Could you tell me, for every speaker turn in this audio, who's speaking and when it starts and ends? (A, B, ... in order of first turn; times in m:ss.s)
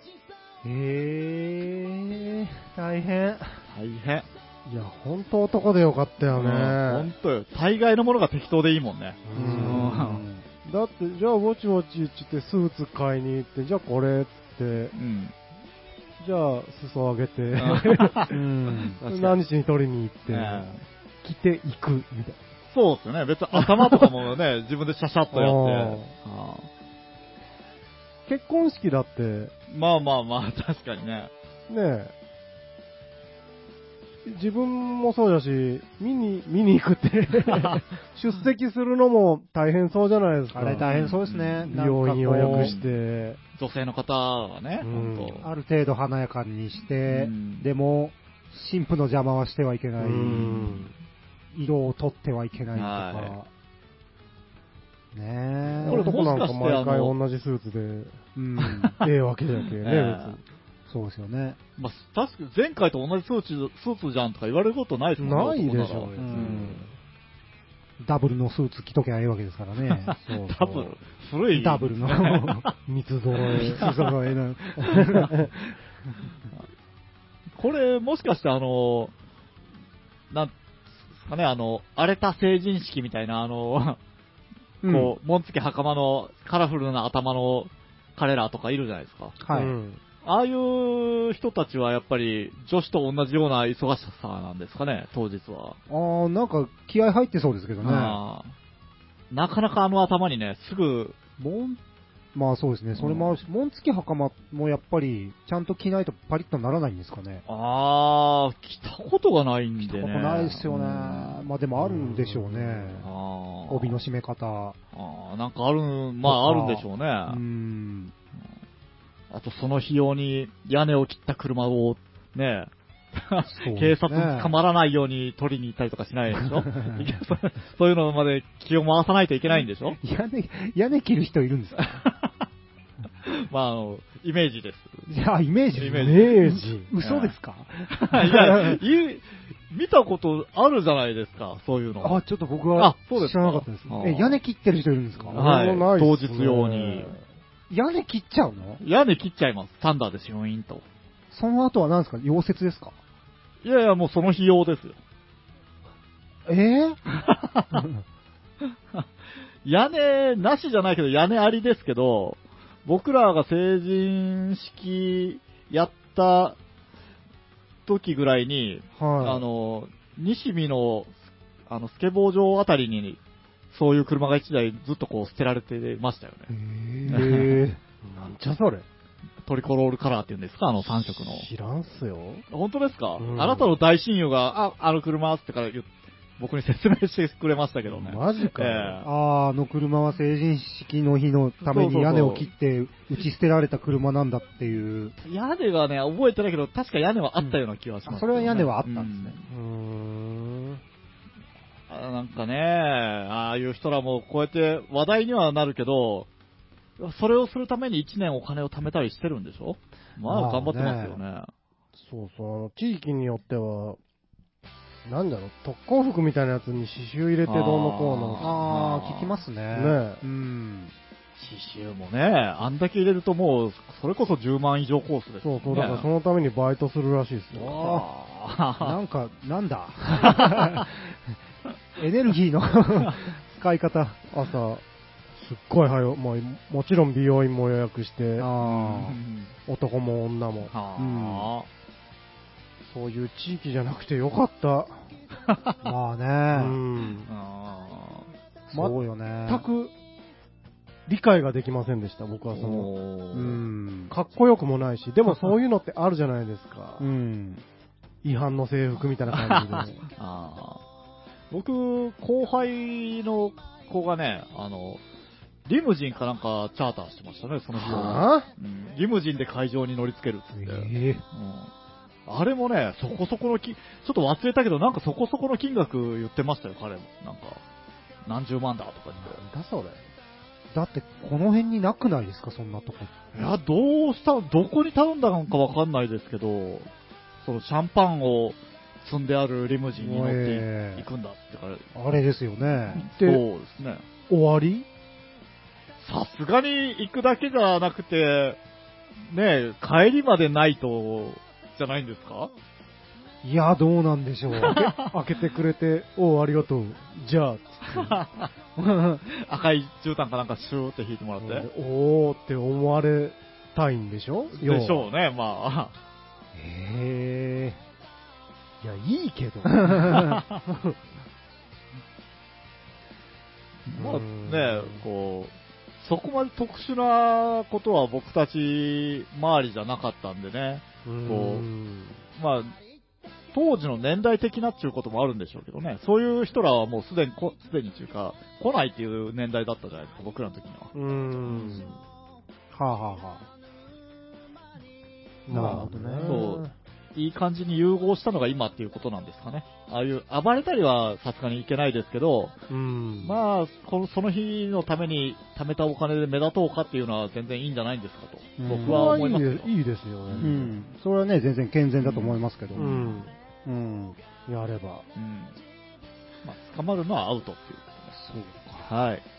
0:00.6-0:02.8 A
0:02.8-0:03.4 B
0:03.7-0:04.2 C
0:04.6-0:07.1 B
0:06.3-0:10.2 C
0:09.2-0:10.0 B
0:09.3-0:10.4 A
0:10.6-0:14.9 B
0:14.9-0:15.3 C
0:16.2-0:18.4 B
0:17.6-0:18.3 C
0:18.3-0:19.0 A
0:19.0-0:19.4 C
0:19.0-0:20.7 B
0:20.3-0:20.8 C
0:21.2-0:22.4 B
0:22.7-0:26.7 C
0:23.5-0:24.1 B
0:25.3-0:26.1 B
0:28.3-0:29.5 B
0:29.7-0:31.3 C
0:31.7-0:32.1 B
0:34.2-0:40.9 B
0:37.4-0:37.8 C
0:40.5-0:42.7 A
0:40.8-0:41.7 C
0:41.7-0:43.4 B
0:42.4-0:42.9 C
0:43.6-0:45.4 C
0:44.8-0:45.4 B
0:45.4-0:50.8 A
0:47.1-0:47.7 C
0:50.0-0:50.9 B
0:51.5-0:53.5 A
0:52.7-0:53.4 C
0:55.1-0:56.1 A
0:55.7-0:58.2 B
0:55.8-0:57.1 C
0:58.4-0:59.0 A
0:58.6-0:59.0 C
0:59.0-1:00.4 B
0:59.8-1:00.4 C
1:00.9-1:01.6 A
1:01.8-1:06.8 C
1:05.2-1:06.9 B
1:06.2-1:06.8 A
1:08.0-1:11.0 A
1:09.9-1:12.7 C
1:11.5-1:12.7 A
1:12.8-1:13.9 B
1:13.5-1:14.1 C
1:13.5-1:15.7 A
1:14.8-1:15.2 C
1:14.9-1:15.5 B
1:17.6-1:19.1 C
1:21.1-1:24.0 C
1:24.8-1:25.1 A
1:24.8-1:29.4 C
1:29.4-1:29.7 A
1:29.5-1:30.0 B
1:30.2-1:35.8 C
1:35.9-1:38.2 A
1:37.8-1:38.5 C
1:39.3-1:41.2 C
1:41.4-1:41.8 A
1:42.3-1:47.4 A
1:43.0-1:43.4 C
1:47.5-1:54.0 C
1:49.8-1:53.1 A
1:53.7-1:54.8 A
1:54.9-1:57.4 C
1:56.2-1:58.1 A
1:59.3-2:10.0 C
2:03.4-2:04.6 A
2:06.4-2:07.2 A
2:10.0-2:12.0 A
2:11.8-2:12.4 C
2:13.2-2:15.1 C
2:15.1-2:18.8 A
2:15.7-2:16.4 C
2:15.9-2:16.9 B
2:17.0-2:17.3 C
2:17.9-2:22.2 C
2:22.0-2:25.4 A
2:22.8-2:24.4 C
2:25.3-2:27.2 B
2:25.3-2:27.1 C
2:27.7-2:28.8 A
2:28.8-2:30.8 C
2:31.3-2:32.9 A
2:33.6-2:35.0 C
2:36.5-2:37.0 A
2:37.1-2:37.9 C
2:38.6-2:39.0 C
2:39.6-2:46.6 C
2:47.8-2:51.1 C
2:49.0-2:49.4 A
2:51.7-2:53.2 C
2:53.7-2:56.5 C
2:56.5-2:57.8 A
2:57.1-2:57.6 C
2:58.0-2:58.8 B
2:59.4-3:01.4 C
3:01.3-3:02.4 B
3:02.5-3:09.1 C
3:03.2-3:03.7 B
3:07.9-3:09.0 B
3:09.0-3:15.1 A
3:11.6-3:12.5 C
3:15.2-3:19.4 C
3:17.4-3:19.4 A
3:19.5-3:20.8 B
3:21.9-3:26.3 C
3:27.0-3:31.5 C
3:30.2-3:31.2 A
3:32.0-3:34.0 B
3:35.0-3:38.5 B
3:37.4-3:39.3 C
3:38.4-3:40.9 A
3:39.7-3:40.2 B
3:41.4-3:46.1 C
3:45.4-3:47.8 B
3:47.5-3:48.9 C
3:47.7-3:48.0 A
3:48.8-3:51.4 A
3:52.0-3:54.2 A
3:54.3-3:54.8 B
3:55.4-3:58.5 B
3:58.4-3:59.2 A
3:58.6-3:59.5 C
3:59.7-4:00.7 B
4:00.7-4:01.7 C
4:01.0-4:01.5 A
4:02.8-4:05.0 B
4:05.4-4:05.7 C
4:05.8-4:06.8 A
4:06.5-4:07.3 B
4:07.3-4:08.3 C
4:08.7-4:09.6 A
4:08.7-4:09.9 B
4:11.1-4:12.9 B
4:12.5-4:13.6 C
4:13.3-4:14.1 A
4:14.1-4:17.0 B
4:17.0-4:17.6 A
4:18.2-4:20.0 B
4:19.3-4:20.8 C
4:21.5-4:25.0 C
4:25.6-4:31.7 C
4:27.7-4:28.5 B
4:30.5-4:31.2 A
4:32.2-4:37.6 C
4:38.2-4:39.4 C
4:39.2-4:40.0 B
4:40.7-4:43.1 A
4:43.3-4:46.9 C
4:47.4-4:51.8 C
4:50.0-4:51.0 A
4:51.9-4:53.0 A
4:52.7-4:54.0 C
4:53.0-4:53.4 B
4:54.3-4:54.9 B
4:56.0-4:58.6 C
4:59.2-5:02.5 C
5:03.4-5:04.9 A
5:04.6-5:08.1 B
5:04.6-5:05.1 C
5:07.9-5:08.5 C
5:08.8-5:09.2 A
5:09.3-5:11.7 C
5:11.4-5:15.1 B
5:14.5-5:15.9 C
5:16.5-5:17.8 A
5:18.8-5:21.0 B
5:19.9-5:20.3 A
5:20.2-5:20.6 C
5:23.9-5:31.6 C
5:23.9-5:25.0 B
5:31.0-5:32.2 B
5:32.3-5:32.8 C
5:33.5-5:40.9 C
5:40.9-5:42.0 B
5:41.5-5:41.9 C
5:42.7-5:43.4 A
5:45.5-5:46.7 B
5:45.5-5:46.4 A
5:46.2-5:52.6 C
5:52.7-5:53.4 B
5:53.2-5:59.7 C
5:58.6-5:59.2 A
5:58.8-6:00.8 B
6:00.3-6:00.5 C
6:00.4-6:04.2 A
6:02.0-6:02.9 C
6:02.7-6:03.3 B
6:04.5-6:05.0 B
6:05.1-6:05.6 C
6:06.4-6:08.1 C
6:08.1-6:08.9 A
6:08.8-6:09.2 C